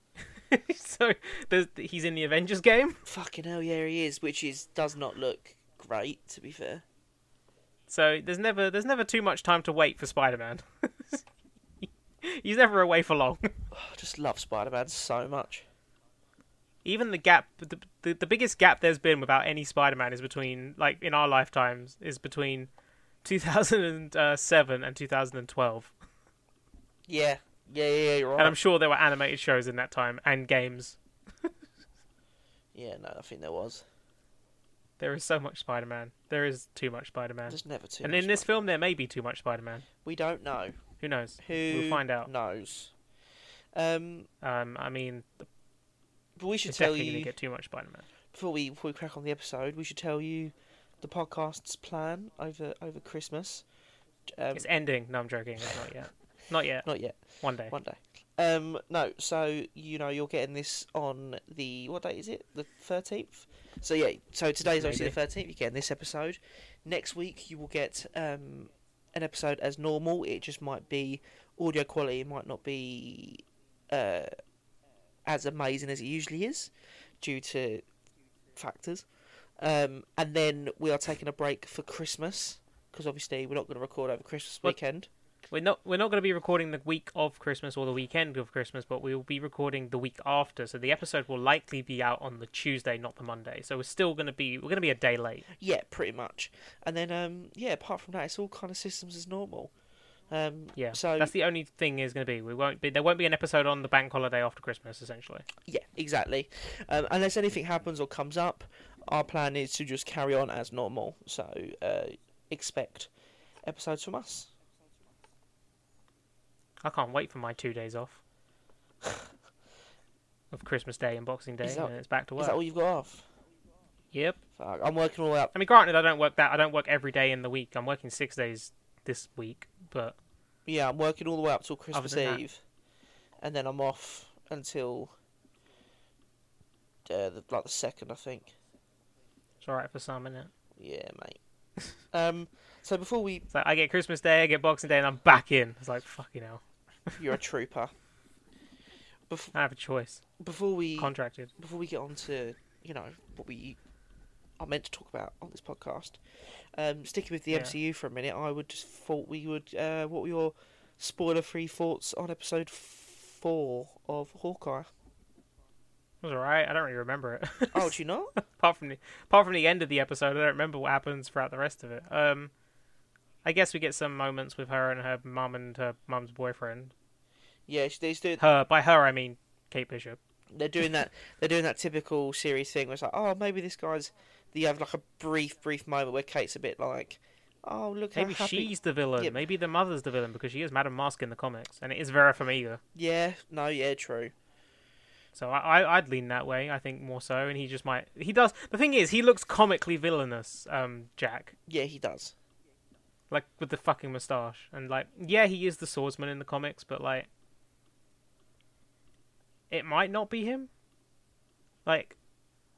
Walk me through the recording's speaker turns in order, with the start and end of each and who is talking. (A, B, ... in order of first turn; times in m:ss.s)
0:00.4-0:03.0 A
0:03.1-0:06.8 B
0:07.9-0:11.2 A
0:11.8-0:13.5 A
0:13.7-0:15.6 B
0:16.8-0:22.7 A
0:23.2-0:25.9 A
0:27.1-0:28.6 B
0:28.4-0:31.0 A
0:32.7-0:33.8 B
0:35.0-0:39.8 A
0:37.5-0:38.5 B
0:40.0-0:40.8 B
0:41.0-0:42.3 A
0:41.4-0:42.9 B
0:43.8-0:44.3 B
0:44.4-0:45.5 A
0:46.4-0:47.3 B
0:46.6-0:48.1 A
0:48.3-0:53.6 B
0:54.3-0:54.7 B
0:54.6-0:56.9 A
0:56.8-0:57.2 B
0:57.4-0:57.8 A
0:57.7-1:14.3 B
1:04.7-1:05.2 A
1:15.2-1:17.8 B
1:18.6-1:19.1 B
1:19.6-1:25.1 B
1:25.5-1:35.5 A
1:35.5-1:39.7 B
1:40.3-1:41.3 B
1:40.8-1:45.4 A
1:45.7-1:53.1 B
1:53.6-1:54.5 B
1:56.8-1:58.2 A
2:00.5-2:02.6 A
2:01.6-2:03.3 B
2:04.1-2:04.4 A
2:04.6-2:05.5 B
2:05.5-2:10.2 A
2:10.7-2:12.6 B
2:11.9-2:12.4 A
2:13.4-2:15.1 B
2:17.1-2:18.5 B
2:19.6-2:20.5 A
2:20.8-2:21.4 B
2:22.1-2:23.4 B
2:23.5-2:27.2 A
2:27.2-2:27.9 B
2:29.5-2:30.2 A
2:30.4-2:33.8 B
2:31.0-2:31.5 A
2:34.6-2:44.9 B
2:46.2-2:52.5 A
2:47.7-2:48.3 B
2:53.4-2:56.9 A
2:57.7-2:58.4 B
2:58.4-3:00.2 A
3:00.5-3:09.4 B
3:08.2-3:12.8 A
3:12.9-3:14.3 B
3:15.3-3:21.6 A
3:21.7-3:22.3 B
3:23.3-3:27.3 A
3:29.7-3:30.7 A
3:31.8-3:32.2 A